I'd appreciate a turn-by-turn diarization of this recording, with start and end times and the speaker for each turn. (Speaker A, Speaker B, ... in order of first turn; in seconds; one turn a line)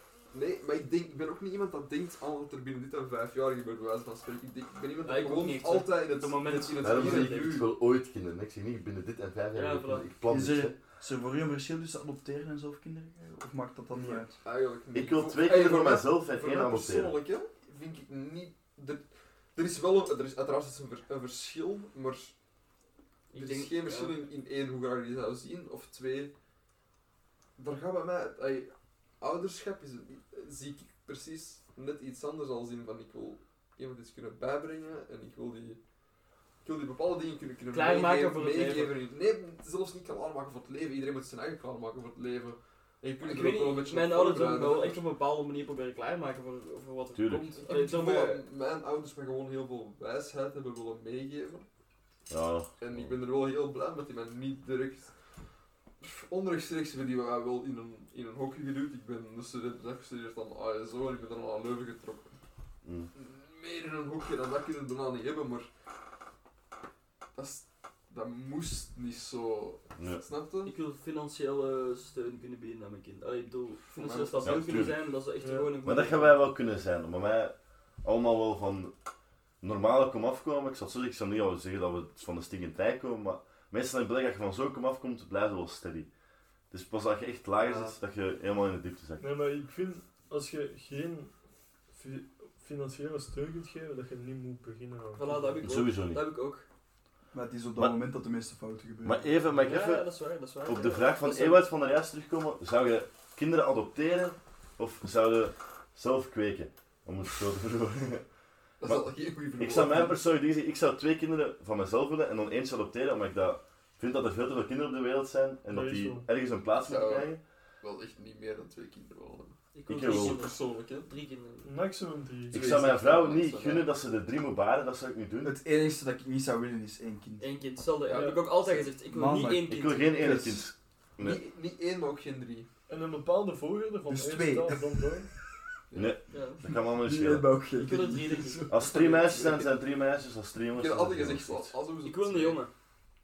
Speaker A: 0.3-7.7
Speaker B: 5.0-7.6
Speaker C: 6.8-10.7
Speaker B: 9.5-10.1
Speaker D: 10.3-14.4
Speaker A: 13.9-19.0
Speaker C: 14.9-17.2
Speaker A: 19.6-22.4
Speaker B: 23.3-24.2
Speaker A: 23.3-26.3
Speaker A: 27.6-35.8
Speaker A: 36.6-45.0
Speaker B: 37.7-39.0
Speaker B: 43.2-48.4
Speaker C: 47.1-47.5
Speaker A: 47.6-51.6
Speaker C: 52.3-52.7
Speaker A: 52.8-55.1
Speaker A: 56.0-62.4
Speaker C: 62.9-63.1
Speaker A: 63.1-65.7
Speaker A: 67.3-70.7
Speaker B: 70.7-76.4
Speaker A: 73.9-74.8
Speaker C: 74.4-75.1
Speaker E: 75.4-75.8
Speaker C: 75.8-78.9
Speaker C: 79.6-86.1
Speaker C: 86.7-89.3
Speaker B: 87.6-88.0
Speaker E: 89.2-91.3
Speaker E: 91.9-95.7
Speaker B: 95.2-96.7
Speaker C: 95.6-96.2
Speaker D: 97.3-99.3
Speaker C: 99.0-108.3
Speaker B: 99.6-101.6
Speaker A: 108.8-110.1
Speaker C: 108.9-117.4
Speaker E: 115.7-116.3
Speaker A: 116.8-121.1
Speaker B: 119.7-121.7
Speaker C: 119.9-120.4
Speaker E: 121.6-122.6
Speaker C: 122.5-125.6
Speaker A: 122.5-123.9
Speaker D: 125.4-127.5
Speaker B: 127.4-130.2
Speaker A: 128.1-128.9
Speaker E: 128.1-128.4
Speaker D: 129.1-130.7
Speaker C: 129.7-131.4
Speaker A: 131.2-132.7
Speaker E: 132.9-135.3
Speaker D: 134.1-134.8
Speaker A: 135.9-136.2
Speaker C: 135.9-137.5
Speaker B: 136.3-136.6
Speaker D: 136.7-138.7
Speaker B: 137.8-139.4
Speaker C: 138.7-141.7
Speaker A: 138.9-139.6
Speaker A: 140.7-142.6
Speaker B: 142.1-142.7